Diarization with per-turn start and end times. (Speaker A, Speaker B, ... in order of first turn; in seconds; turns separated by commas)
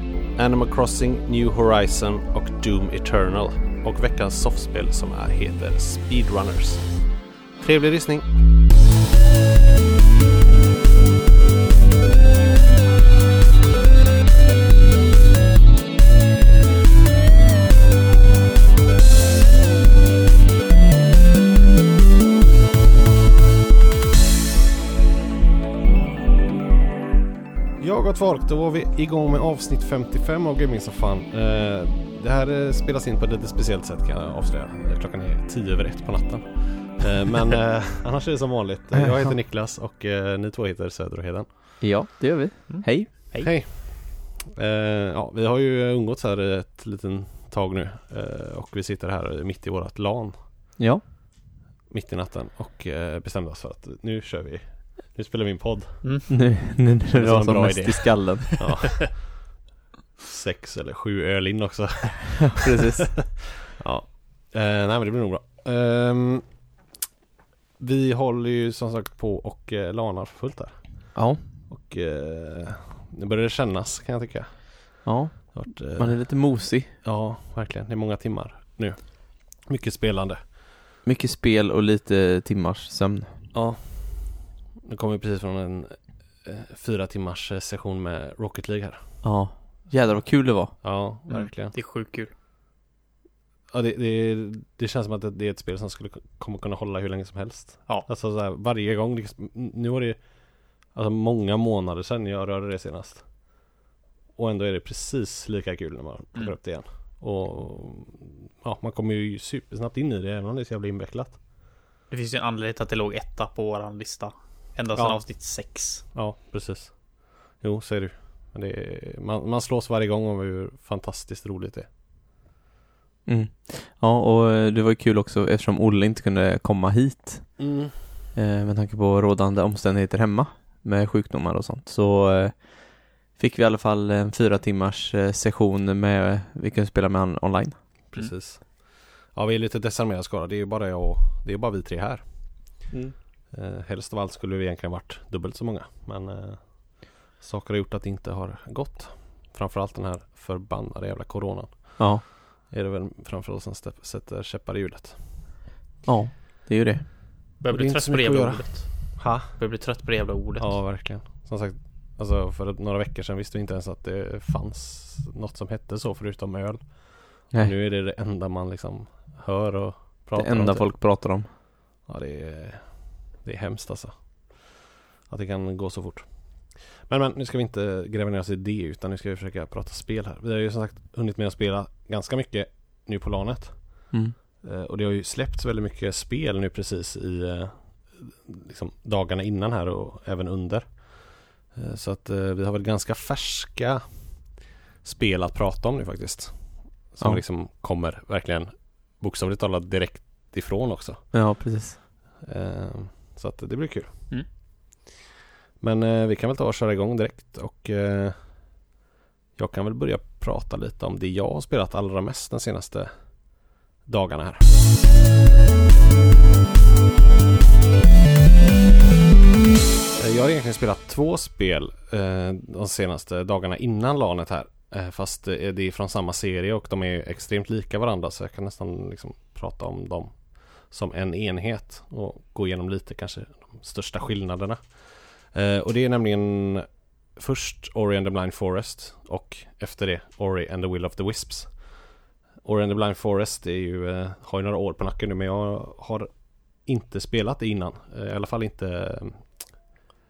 Speaker A: 0.3-8.3, Speaker A: 27.8-41.5, Speaker B: 38.9-39.3, Speaker B: 41.8-43.1, Speaker C: 42.7-43.5, Speaker A: 43.4-50.4, Speaker B: 50.8-51.0, Speaker A: 51.9-56.4, Speaker C: 56.0-56.3, Speaker B: 56.3-58.9, Speaker A: 57.1-59.5, Speaker A: 60.2-62.7, Speaker B: 62.5-63.6, Speaker A: 63.6-66.6, Speaker A: 67.8-80.5, Speaker B: 71.1-71.4, Speaker B: 75.0-77.0, Speaker B: 81.0-83.5, Speaker A: 83.5-89.2, Speaker B: 89.2-91.0, Speaker A: 90.7-91.7, Speaker C: 91.3-92.3, Speaker A: 93.7-103.3, Speaker A: 104.3-111.4, Speaker C: 112.1-116.0, Speaker A: 114.9-115.3, Speaker A: 116.1-121.9, Speaker B: 123.2-138.0, Speaker A: 127.6-128.1, Speaker A: 138.1-142.8, Speaker B: 142.9-143.1, Speaker A: 143.5-155.4, Speaker B: 152.0-152.2, Speaker B: 156.0-157.2, Speaker C: 157.6-160.8, Speaker A: 157.7-159.7, Speaker A: 160.6-170.9, Speaker B: 170.3-171.5, Speaker A: 172.1-174.7, Speaker A: 175.3-201.3, Speaker B: 201.3-202.0, Speaker A: 202.4-204.3, Speaker A: 205.8-208.9, Speaker A: 209.6-214.7, Speaker A: 220.2-242.0, Speaker A: 242.6-249.7